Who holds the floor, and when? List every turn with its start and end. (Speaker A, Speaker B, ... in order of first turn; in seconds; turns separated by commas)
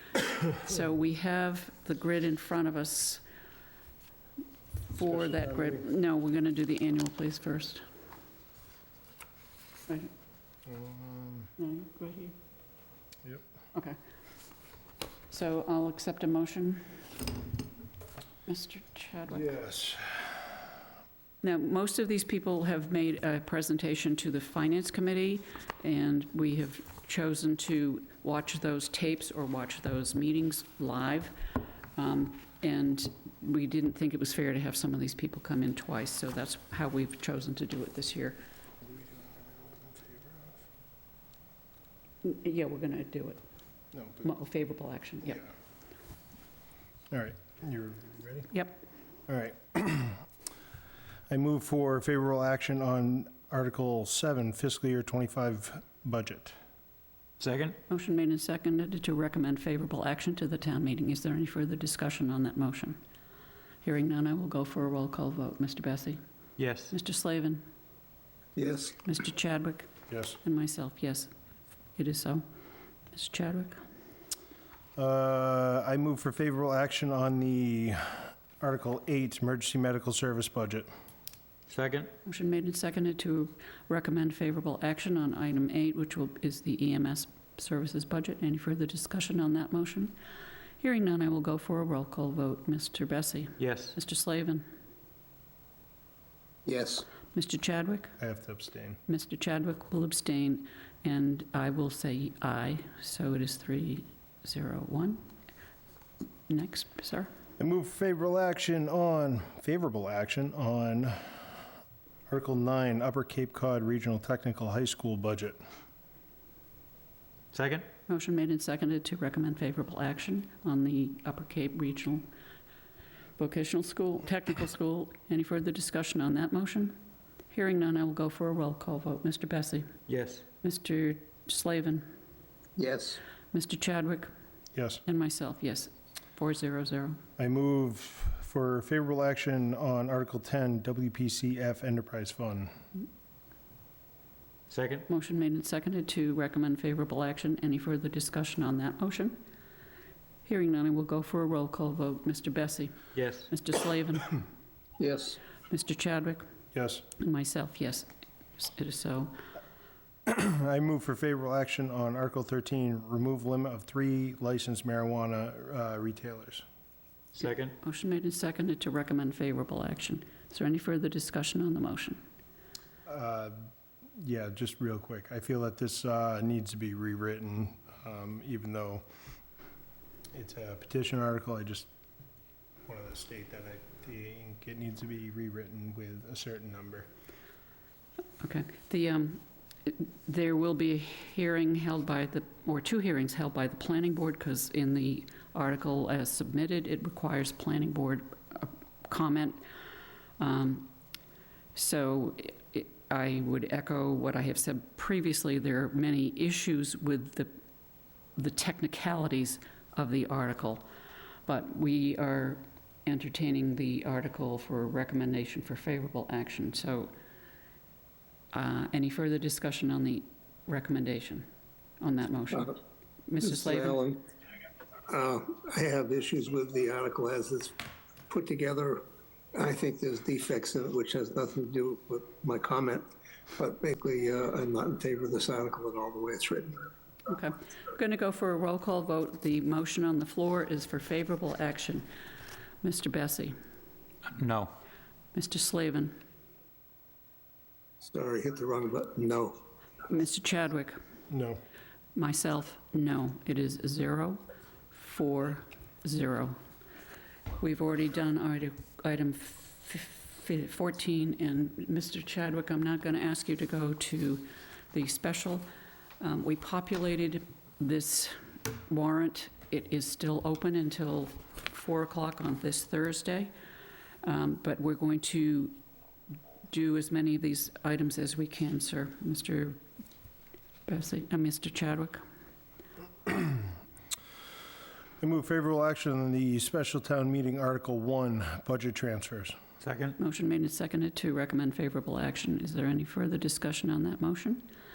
Speaker A: 0.4-3.2, Speaker A: 4.9-7.8, Speaker B: 5.0-5.8, Speaker B: 10.7-11.5, Speaker A: 11.6-12.3, Speaker A: 15.3-17.1, Speaker A: 18.4-19.5, Speaker B: 19.3-20.6, Speaker A: 21.4-31.4, Speaker A: 31.9-38.4, Speaker B: 38.8-40.6, Speaker A: 42.2-43.4, Speaker B: 43.9-44.3, Speaker A: 44.2-45.4, Speaker B: 47.1-48.5, Speaker A: 48.5-48.8, Speaker B: 49.3-50.2, Speaker B: 51.3-56.6, Speaker C: 57.4-57.8, Speaker A: 57.9-63.0, Speaker A: 63.8-66.2, Speaker C: 66.6-66.9, Speaker A: 66.9-67.6, Speaker D: 68.5-69.0, Speaker A: 69.0-69.9, Speaker B: 70.1-70.4, Speaker A: 70.4-71.3, Speaker A: 72.0-72.4, Speaker A: 73.1-73.8, Speaker B: 75.0-80.9, Speaker C: 81.7-82.1, Speaker A: 82.2-90.2, Speaker A: 90.8-94.7, Speaker C: 93.6-93.9, Speaker D: 96.7-97.0, Speaker A: 97.3-98.1, Speaker B: 98.2-99.0, Speaker A: 99.1-105.2, Speaker A: 106.5-107.3, Speaker B: 107.6-111.6, Speaker B: 112.3-115.6, Speaker C: 117.5-117.8, Speaker A: 118.1-122.2, Speaker A: 123.4-127.0, Speaker A: 127.5-129.9, Speaker C: 130.1-130.4, Speaker A: 130.6-132.1, Speaker D: 132.8-133.2, Speaker A: 133.5-134.3, Speaker B: 134.7-135.0, Speaker A: 135.0-137.2, Speaker B: 137.4-142.7, Speaker C: 144.7-145.1, Speaker A: 145.1-149.4, Speaker A: 150.4-154.4, Speaker C: 153.1-153.5, Speaker D: 155.0-155.4, Speaker A: 155.7-156.4, Speaker B: 156.7-157.0, Speaker A: 157.2-159.4, Speaker B: 160.2-166.6, Speaker C: 167.3-167.8, Speaker A: 167.8-172.2, Speaker B: 173.1-173.6, Speaker B: 174.2-179.0, Speaker B: 180.3-181.9, Speaker B: 182.8-187.1, Speaker A: 188.4-199.6, Speaker A: 200.4-200.9, Speaker A: 201.7-207.5, Speaker A: 208.3-210.8, Speaker A: 211.4-217.1, Speaker A: 218.5-221.4, Speaker A: 222.0-222.8, Speaker A: 223.3-224.0, Speaker D: 223.4-224.2, Speaker D: 225.1-227.7, Speaker D: 228.3-236.9, Speaker A: 237.3-242.1, Speaker A: 242.8-243.6, Speaker C: 244.2-244.7, Speaker A: 245.3-246.2, Speaker D: 248.0-249.6, Speaker A: 250.1-251.0, Speaker B: 251.3-251.6, Speaker A: 252.1-254.4, Speaker A: 254.9-256.6, Speaker A: 257.6-265.6, Speaker A: 266.2-273.5, Speaker A: 274.2-275.8, Speaker A: 276.7-279.8, Speaker A: 280.9-282.2, Speaker B: 285.2-289.6, Speaker C: 289.8-290.2, Speaker A: 290.2-294.6